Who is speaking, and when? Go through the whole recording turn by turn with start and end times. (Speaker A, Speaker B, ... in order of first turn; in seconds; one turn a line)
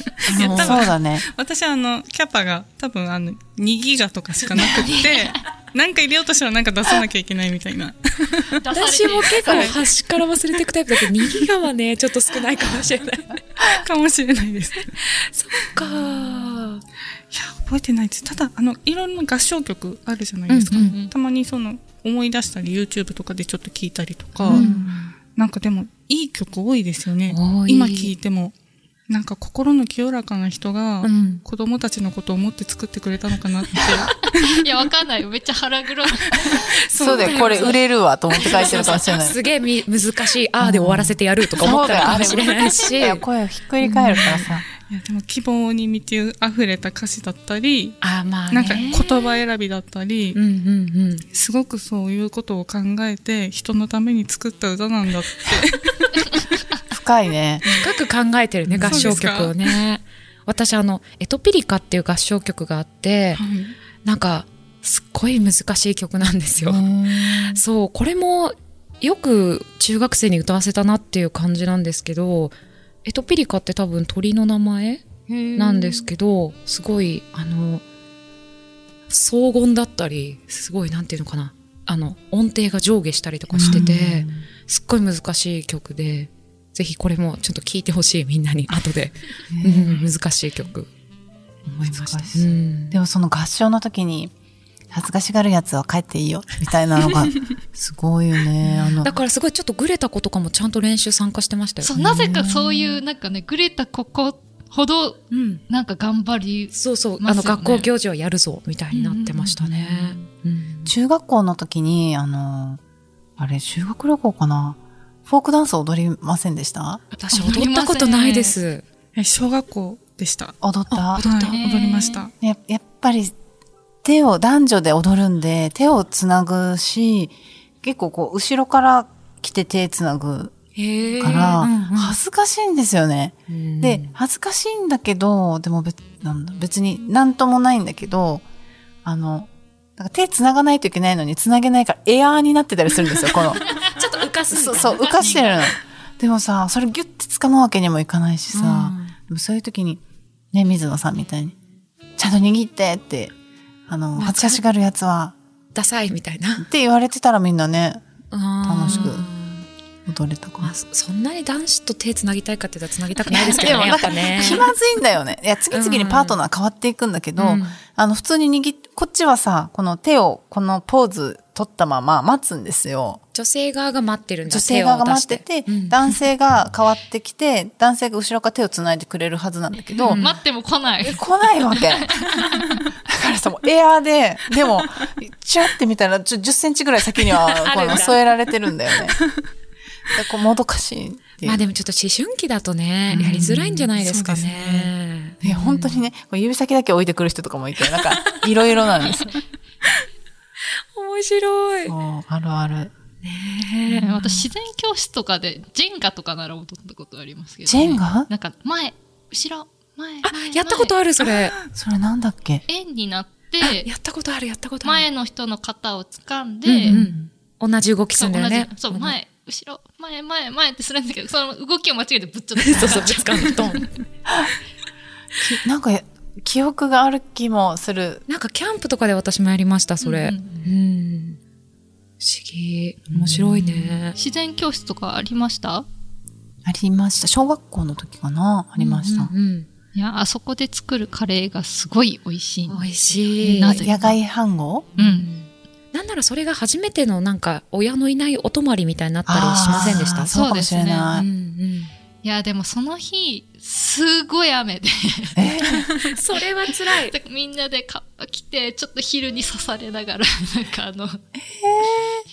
Speaker A: 0.2-0.8
Speaker B: 0.3-1.3
Speaker C: 0.3-8.6
Speaker D: 4.7-5.4
Speaker D: 8.6-9.8
Speaker A: 8.7-13.7
Speaker C: 9.2-9.9
Speaker C: 10.5-11.5
Speaker C: 13.6-14.9
Speaker A: 15.1-16.8
Speaker C: 15.8-16.4
Speaker C: 17.3-24.7
Speaker A: 20.5-21.0
Speaker D: 20.7-21.1
Speaker B: 24.4-24.9
Speaker A: 24.5-25.1
Speaker C: 25.4-28.6
Speaker A: 27.3-28.1
Speaker C: 29.1-34.2
Speaker A: 31.0-31.4
Speaker D: 34.3-37.8
Speaker B: 36.4-39.4
Speaker A: 36.6-37.8
Speaker D: 38.3-39.0
Speaker A: 38.3-43.2
Speaker B: 40.6-44.6
Speaker A: 43.8-44.5
Speaker C: 44.9-50.4
Speaker A: 48.0-49.0
Speaker A: 50.4-51.3
Speaker C: 51.3-56.3
Speaker B: 56.9-57.6
Speaker A: 57.7-63.4
Speaker B: 58.7-59.2
Speaker C: 58.8-59.8
Speaker C: 63.4-63.8
Speaker A: 64.0-66.9
Speaker B: 66.6-67.6
Speaker A: 67.5-77.8
Speaker D: 75.3-76.1
Speaker A: 79.1-90.9
Speaker B: 83.5-84.5
Speaker B: 89.5-90.1
Speaker B: 91.7-94.3
Speaker A: 91.7-93.0
Speaker B: 94.9-99.1
Speaker A: 99.0-102.0
Speaker D: 101.8-107.9
Speaker B: 102.0-102.9
Speaker A: 105.3-105.6
Speaker A: 106.7-110.9
Speaker D: 108.9-109.5
Speaker B: 109.5-110.2
Speaker B: 110.8-112.8
Speaker B: 113.4-117.0
Speaker D: 117.2-118.6
Speaker A: 117.2-118.8
Speaker C: 119.2-120.6
Speaker B: 120.6-121.2
Speaker A: 120.9-122.1
Speaker C: 121.2-122.3
Speaker D: 121.4-122.2
Speaker B: 122.3-123.3
Speaker B: 124.0-130.5
Speaker A: 130.8-132.2
Speaker D: 131.0-131.5
Speaker B: 131.2-138.4
Speaker A: 133.5-134.1
Speaker B: 139.0-143.8
Speaker A: 143.7-145.4
Speaker B: 144.5-150.0
Speaker D: 145.0-145.5
Speaker A: 148.5-149.1
Speaker B: 150.5-151.6
Speaker B: 152.2-153.3
Speaker B: 153.9-155.4
Speaker A: 154.2-154.6
Speaker A: 155.8-156.7
Speaker B: 156.6-158.0
Speaker A: 158.3-159.7
Speaker B: 158.6-159.3
Speaker B: 160.1-160.7
Speaker A: 160.6-164.7
Speaker B: 163.2-173.2
Speaker A: 165.7-166.4
Speaker A: 167.4-167.8
Speaker A: 173.3-176.0
Speaker B: 174.5-180.2
Speaker D: 180.1-181.2
Speaker A: 180.1-180.3
Speaker B: 181.1-182.2
Speaker D: 181.8-182.7
Speaker B: 183.1-189.2
Speaker A: 187.4-188.2
Speaker B: 190.1-191.6
Speaker A: 191.4-196.0
Speaker B: 193.1-193.9
Speaker C: 193.1-194.9
Speaker B: 195.4-199.3
Speaker A: 200.9-201.9
Speaker B: 201.9-202.9
Speaker A: 203.2-204.4
Speaker D: 203.9-210.9
Speaker B: 207.7-208.3
Speaker A: 210.2-211.6
Speaker C: 211.2-211.6
Speaker B: 211.7-212.7
Speaker D: 212.7-213.9
Speaker A: 213.6-215.1
Speaker D: 214.8-217.0
Speaker A: 216.7-219.2
Speaker B: 216.9-217.3
Speaker D: 218.2-223.8
Speaker A: 222.6-223.9
Speaker B: 225.4-228.2
Speaker A: 228.3-231.4
Speaker D: 230.0-230.7
Speaker A: 232.2-234.2
Speaker B: 233.1-234.0
Speaker D: 234.2-235.9
Speaker B: 236.7-239.3
Speaker A: 238.8-239.7
Speaker D: 239.9-244.1
Speaker A: 242.7-243.9
Speaker B: 243.6-245.0
Speaker D: 245.0-245.3
Speaker A: 245.0-250.3
Speaker B: 249.2-251.3
Speaker D: 249.8-251.2
Speaker A: 251.1-251.9
Speaker D: 252.2-255.7
Speaker B: 255.4-255.9
Speaker A: 255.7-257.1
Speaker D: 256.4-261.2
Speaker B: 261.4-262.2